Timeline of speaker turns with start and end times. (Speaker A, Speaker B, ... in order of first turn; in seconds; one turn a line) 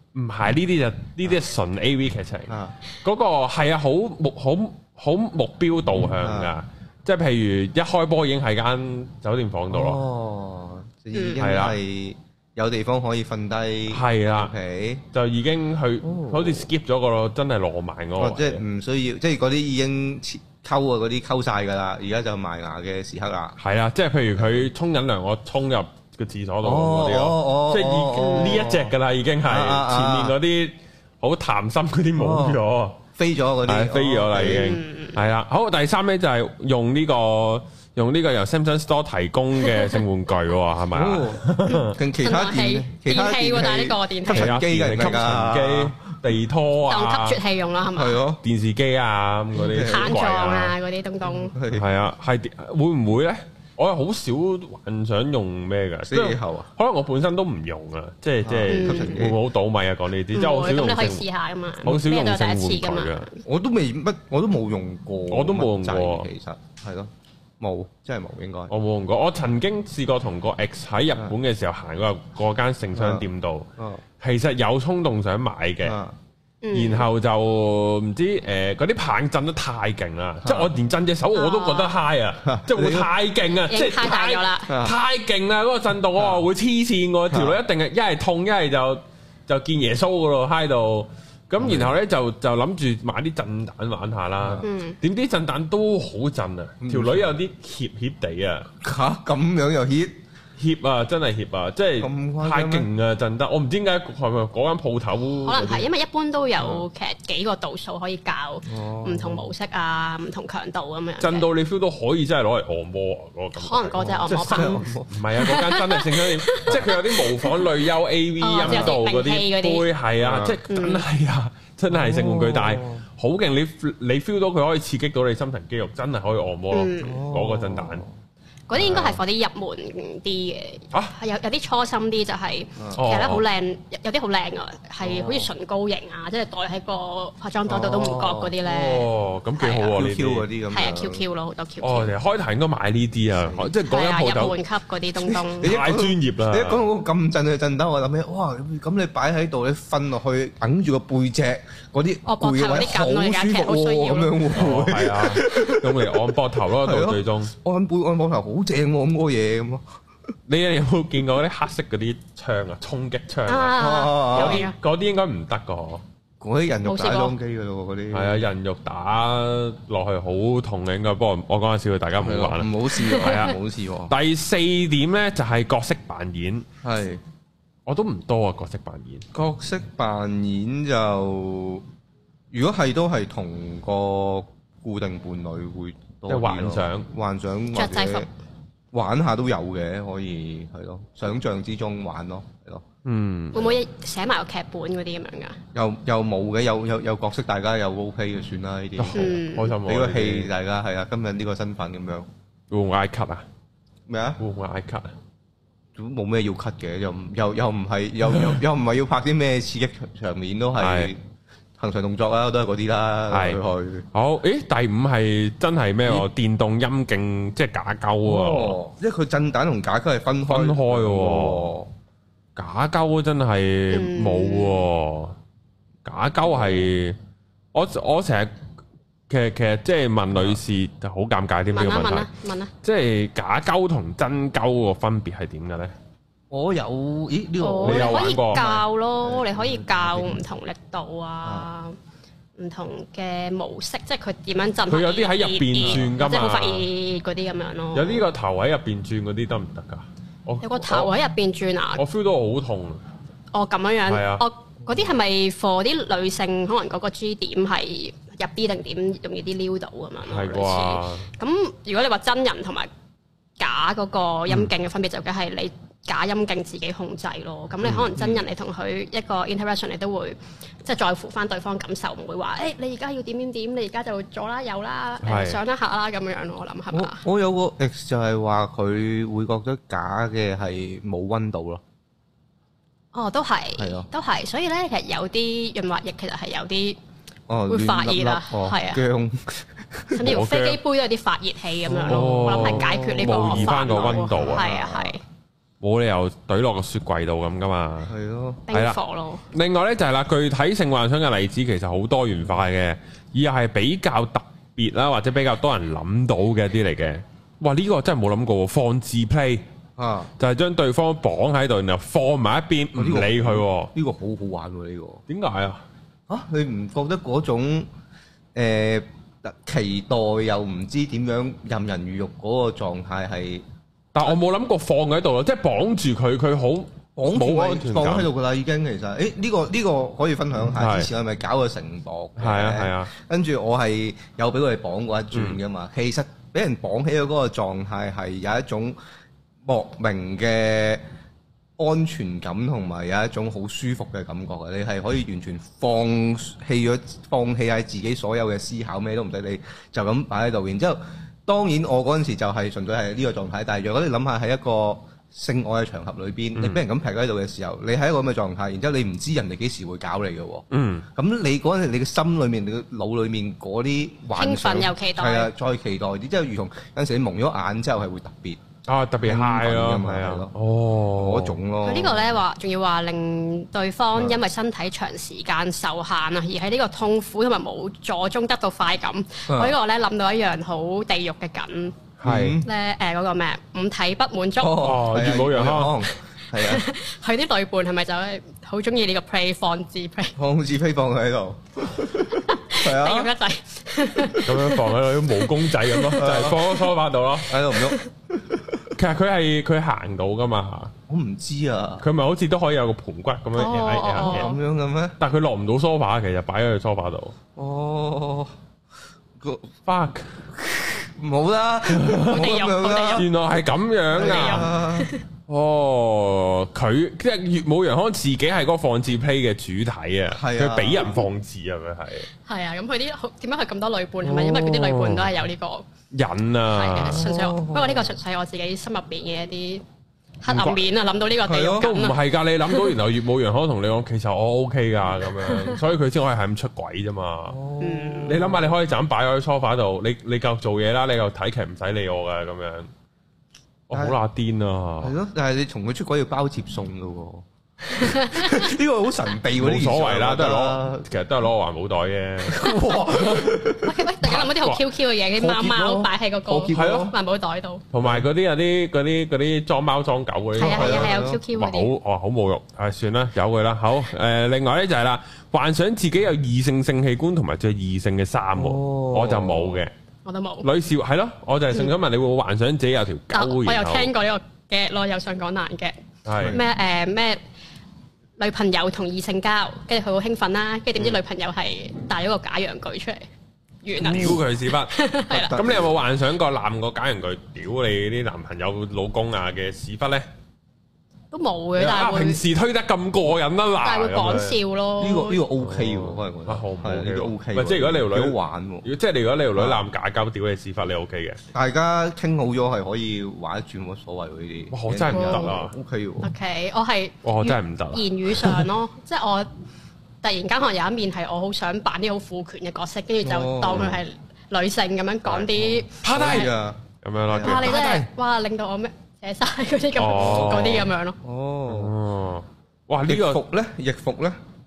Speaker A: 0.1-10.0
Speaker B: 2.5-2.8
Speaker B: 6.0-6.5
Speaker B: 9.7-15.0
Speaker C: 11.1-11.4
Speaker A: 11.4-11.8
Speaker A: 13.9-14.5
Speaker A: 15.1-18.6
Speaker B: 16.0-16.7
Speaker B: 18.2-23.6
Speaker A: 23.6-33.0
Speaker B: 24.4-24.6
Speaker B: 26.6-28.9
Speaker B: 29.4-30.4
Speaker B: 32.2-32.6
Speaker B: 33.1-34.7
Speaker A: 33.7-42.0
Speaker C: 34.4-35.2
Speaker C: 39.8-40.0
Speaker B: 40.9-46.0
Speaker C: 42.2-44.6
Speaker A: 44.3-47.4
Speaker C: 46.9-48.2
Speaker B: 48.0-48.4
Speaker A: 48.4-50.8
Speaker B: 49.6-50.2
Speaker C: 49.7-51.6
Speaker B: 51.2-51.9
Speaker A: 51.7-61.2
Speaker B: 56.1-56.7
Speaker B: 58.4-59.4
Speaker C: 58.7-59.3
Speaker C: 60.3-63.4
Speaker A: 61.8-63.3
Speaker B: 63.5-68.7
Speaker A: 65.3-66.3
Speaker A: 68.7-76.0
Speaker B: 73.0-73.2
Speaker B: 73.8-74.0
Speaker B: 75.8-76.2
Speaker C: 76.6-77.1
Speaker A: 76.7-98.7
Speaker B: 80.4-80.7
Speaker C: 81.3-82.0
Speaker B: 82.4-83.1
Speaker C: 83.7-84.7
Speaker B: 84.7-85.0
Speaker B: 86.2-86.4
Speaker B: 87.3-87.6
Speaker B: 91.6-91.9
Speaker C: 94.6-95.0
Speaker B: 96.8-97.3
Speaker B: 98.8-100.2
Speaker A: 100.6-105.9
Speaker B: 102.0-102.9
Speaker C: 105.5-111.5
Speaker B: 106.6-106.8
Speaker B: 108.7-109.5
Speaker A: 111.2-128.1
Speaker C: 113.6-114.8
Speaker B: 114.0-115.1
Speaker C: 115.4-117.7
Speaker C: 118.4-119.9
Speaker B: 118.6-119.0
Speaker B: 120.2-120.6
Speaker C: 120.7-121.0
Speaker B: 121.9-123.0
Speaker C: 126.7-127.3
Speaker B: 127.0-128.1
Speaker C: 128.7-140.0
Speaker B: 128.7-129.2
Speaker A: 132.9-133.4
Speaker B: 135.0-135.5
Speaker B: 137.7-138.6
Speaker A: 138.7-140.5
Speaker B: 139.9-141.2
Speaker C: 140.7-142.1
Speaker A: 141.8-144.6
Speaker B: 143.4-143.7
Speaker C: 143.8-145.8
Speaker B: 145.2-156.2
Speaker A: 145.6-146.8
Speaker C: 152.3-154.5
Speaker A: 154.5-157.5
Speaker B: 156.7-159.8
Speaker A: 160.5-163.8
Speaker C: 163.5-164.8
Speaker B: 163.8-164.7
Speaker A: 164.3-166.0
Speaker B: 166.4-168.5
Speaker C: 166.8-167.3
Speaker A: 168.1-173.6
Speaker B: 172.2-174.1
Speaker C: 173.0-173.4
Speaker A: 174.1-176.7
Speaker B: 176.8-177.2
Speaker A: 177.9-179.3
Speaker B: 179.3-181.8
Speaker B: 182.5-188.3
Speaker A: 186.3-187.1
Speaker C: 187.7-188.3
Speaker B: 188.9-192.8
Speaker A: 193.1-193.6
Speaker C: 193.5-195.6
Speaker B: 195.7-202.3
Speaker A: 199.0-200.5
Speaker C: 199.1-199.8
Speaker A: 202.7-203.5
Speaker B: 204.1-204.4
Speaker A: 204.4-205.1
Speaker B: 205.9-211.2
Speaker A: 210.8-211.1
Speaker B: 211.8-214.1
Speaker A: 213.3-213.6
Speaker A: 214.1-218.8
Speaker B: 218.2-221.9
Speaker A: 220.5-221.7
Speaker A: 222.6-225.4
Speaker C: 223.9-224.9
Speaker A: 226.1-227.2
Speaker A: 227.7-228.6
Speaker A: 229.3-232.3
Speaker C: 231.7-232.7
Speaker A: 232.8-235.9
Speaker B: 236.5-240.4
Speaker C: 237.6-242.0
Speaker A: 237.8-238.6
Speaker B: 241.4-241.7
Speaker C: 242.6-248.2
Speaker A: 244.9-246.9
Speaker B: 245.8-246.1
Speaker A: 247.9-251.1
Speaker C: 250.6-252.0
Speaker A: 252.0-253.0
Speaker C: 253.5-262.9
Speaker A: 254.1-254.4
Speaker A: 260.2-261.3
Speaker C: 263.6-277.2
Speaker B: 268.1-268.4
Speaker A: 275.2-275.6
Speaker B: 276.9-281.8
Speaker C: 283.1-287.0
Speaker B: 283.8-284.1
Speaker B: 287.5-290.4
Speaker C: 287.7-289.0
Speaker C: 290.1-295.2
Speaker A: 290.2-290.8
Speaker B: 291.9-295.2
Speaker A: 292.1-294.7
Speaker A: 295.8-298.1
Speaker B: 298.1-298.6
Speaker C: 298.7-299.4
Speaker A: 298.7-299.0
Speaker A: 299.5-309.6
Speaker B: 310.0-310.3
Speaker A: 310.4-313.9
Speaker B: 312.9-315.2
Speaker A: 315.3-315.8
Speaker B: 316.3-317.9
Speaker B: 318.6-323.6
Speaker A: 324.1-328.3
Speaker B: 327.2-339.0
Speaker A: 330.8-331.1
Speaker A: 332.4-333.1
Speaker A: 335.3-335.6
Speaker B: 339.6-341.0
Speaker B: 341.8-368.6
Speaker A: 356.6-356.8
Speaker A: 360.7-361.1
Speaker C: 364.4-365.5
Speaker A: 368.9-371.6
Speaker B: 369.2-370.5
Speaker B: 371.1-372.4
Speaker C: 371.8-382.1
Speaker B: 374.1-374.4
Speaker B: 379.5-379.8
Speaker A: 382.2-382.6
Speaker B: 382.2-382.7
Speaker C: 382.6-384.9
Speaker B: 384.6-386.9
Speaker A: 384.8-386.0
Speaker C: 386.6-390.4
Speaker B: 390.4-393.3
Speaker C: 392.4-396.1
Speaker A: 394.4-397.6
Speaker B: 396.2-396.8
Speaker B: 397.5-398.9
Speaker C: 397.8-398.1
Speaker A: 398.9-400.9
Speaker B: 401.1-402.0
Speaker A: 402.0-404.5
Speaker C: 403.6-404.6
Speaker B: 404.2-405.2
Speaker A: 405.2-407.4
Speaker B: 407.6-408.5
Speaker B: 409.4-409.7
Speaker A: 409.9-410.4
Speaker B: 410.6-413.3
Speaker A: 411.9-412.4
Speaker C: 412.3-413.3
Speaker A: 413.1-414.7
Speaker B: 414.1-415.1
Speaker C: 414.2-415.2
Speaker A: 415.5-422.3
Speaker B: 420.3-421.3
Speaker C: 422.5-425.9
Speaker B: 424.3-424.9
Speaker A: 426.1-427.3
Speaker C: 426.7-429.8
Speaker B: 427.0-428.1
Speaker C: 430.4-432.9
Speaker A: 430.5-430.8
Speaker B: 431.4-431.9
Speaker A: 431.8-437.6
Speaker C: 435.4-435.8
Speaker B: 437.5-438.6
Speaker C: 437.8-438.4
Speaker A: 438.3-442.9
Speaker A: 443.9-445.1
Speaker B: 443.9-444.2
Speaker B: 445.0-447.5
Speaker C: 447.9-448.7
Speaker B: 448.0-451.1
Speaker A: 449.5-453.6
Speaker B: 452.4-454.0
Speaker C: 452.6-457.8
Speaker A: 454.2-454.8
Speaker B: 455.4-457.1
Speaker A: 456.7-457.1
Speaker A: 457.9-469.9
Speaker B: 458.0-458.3
Speaker C: 460.6-461.9
Speaker B: 460.6-461.4
Speaker B: 468.6-469.8
Speaker C: 470.2-470.7
Speaker A: 470.6-474.1
Speaker C: 473.3-477.4
Speaker A: 476.3-476.6
Speaker B: 476.4-476.6
Speaker C: 478.4-483.2
Speaker C: 483.8-485.6
Speaker A: 484.0-484.9
Speaker B: 484.0-484.4
Speaker B: 485.3-485.9
Speaker A: 485.5-490.3
Speaker C: 491.3-492.4
Speaker A: 491.8-494.6
Speaker C: 493.8-495.4
Speaker B: 495.0-498.9
Speaker A: 495.6-501.4
Speaker B: 499.6-499.9
Speaker B: 501.5-506.3
Speaker A: 504.7-505.7
Speaker C: 505.1-505.5
Speaker C: 506.2-509.5
Speaker A: 507.2-508.6
Speaker C: 510.2-516.5
Speaker B: 513.2-514.0
Speaker B: 515.3-517.8
Speaker A: 516.0-516.5
Speaker A: 517.0-518.1
Speaker C: 517.4-521.2
Speaker A: 520.0-520.9
Speaker B: 520.1-522.0
Speaker A: 521.7-523.4
Speaker B: 523.1-524.4